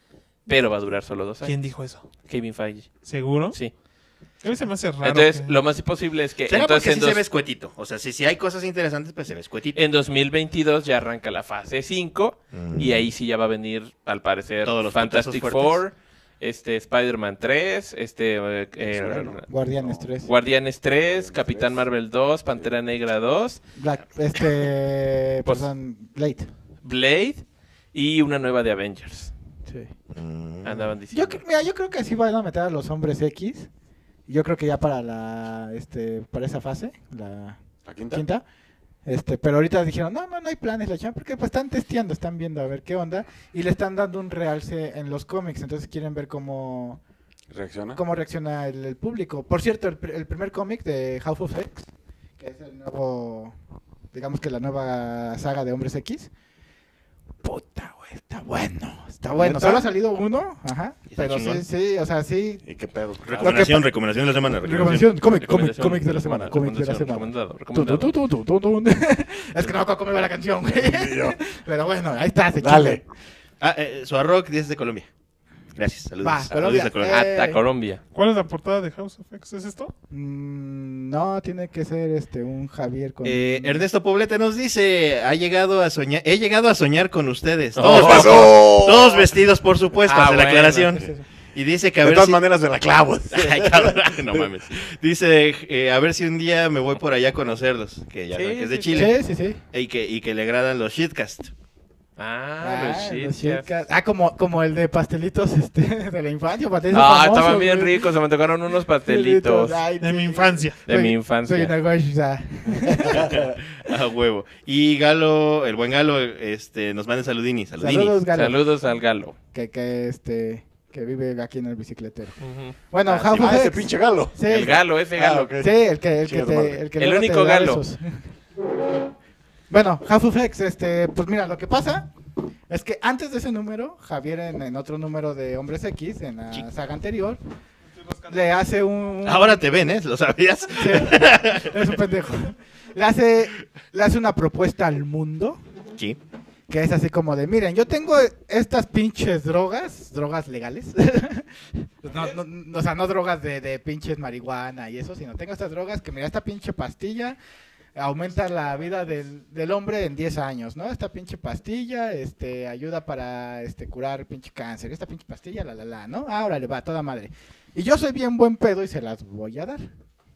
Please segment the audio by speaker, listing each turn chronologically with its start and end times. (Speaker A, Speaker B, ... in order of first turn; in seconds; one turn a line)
Speaker A: 0.5-2.9
Speaker B: 1.4-2.1
Speaker B: 3.0-3.6
Speaker A: 3.5-3.7
Speaker B: 4.4-5.6
Speaker A: 5.0-7.2
Speaker C: 6.5-9.8
Speaker A: 9.7-19.5
Speaker C: 12.5-13.1
Speaker C: 14.6-15.8
Speaker C: 19.0-19.3
Speaker D: 19.5-20.3
Speaker E: 19.8-20.1
Speaker A: 20.2-23.6
Speaker E: 21.1-21.8
Speaker D: 23.8-26.5
Speaker A: 26.8-27.4
Speaker A: 27.9-29.3
Speaker D: 29.6-29.9
Speaker C: 30.1-30.9
Speaker A: 30.6-31.4
Speaker D: 31.1-33.7
Speaker D: 34.3-38.4
Speaker E: 37.8-38.2
Speaker D: 39.0-47.0
Speaker E: 47.5-48.0
Speaker D: 47.9-53.5
Speaker D: 54.1-56.3
Speaker D: 57.4-62.6
Speaker C: 61.1-61.6
Speaker E: 62.6-63.7
Speaker C: 63.2-65.1
Speaker D: 63.4-63.9
Speaker D: 64.6-73.0
Speaker A: 65.3-68.1
Speaker E: 70.8-71.4
Speaker E: 72.6-73.0
Speaker C: 73.6-75.1
Speaker C: 75.7-77.2
Speaker D: 76.2-77.6
Speaker A: 77.1-78.0
Speaker B: 78.1-79.9
Speaker D: 80.1-83.8
Speaker C: 83.2-92.4
Speaker A: 87.8-88.5
Speaker E: 87.8-89.2
Speaker A: 90.0-90.9
Speaker D: 90.9-91.2
Speaker E: 92.0-94.4
Speaker C: 93.3-99.2
Speaker A: 98.3-99.1
Speaker D: 98.9-99.6
Speaker C: 99.7-101.5
Speaker A: 102.2-103.7
Speaker D: 102.6-108.1
Speaker A: 106.9-109.8
Speaker D: 109.0-113.4
Speaker B: 110.0-110.8
Speaker A: 110.8-111.7
Speaker C: 113.3-118.2
Speaker D: 117.8-118.6
Speaker A: 118.3-119.3
Speaker D: 119.5-122.4
Speaker A: 122.4-122.8
Speaker D: 122.9-124.8
Speaker E: 123.1-124.4
Speaker A: 124.5-125.5
Speaker E: 125.2-125.7
Speaker D: 125.6-128.3
Speaker E: 126.2-126.8
Speaker A: 127.0-127.8
Speaker D: 129.7-132.1
Speaker D: 132.7-137.4
Speaker B: 138.1-138.4
Speaker D: 138.3-139.8
Speaker C: 139.2-141.8
Speaker D: 140.7-145.6
Speaker D: 146.7-157.4
Speaker D: 157.9-169.8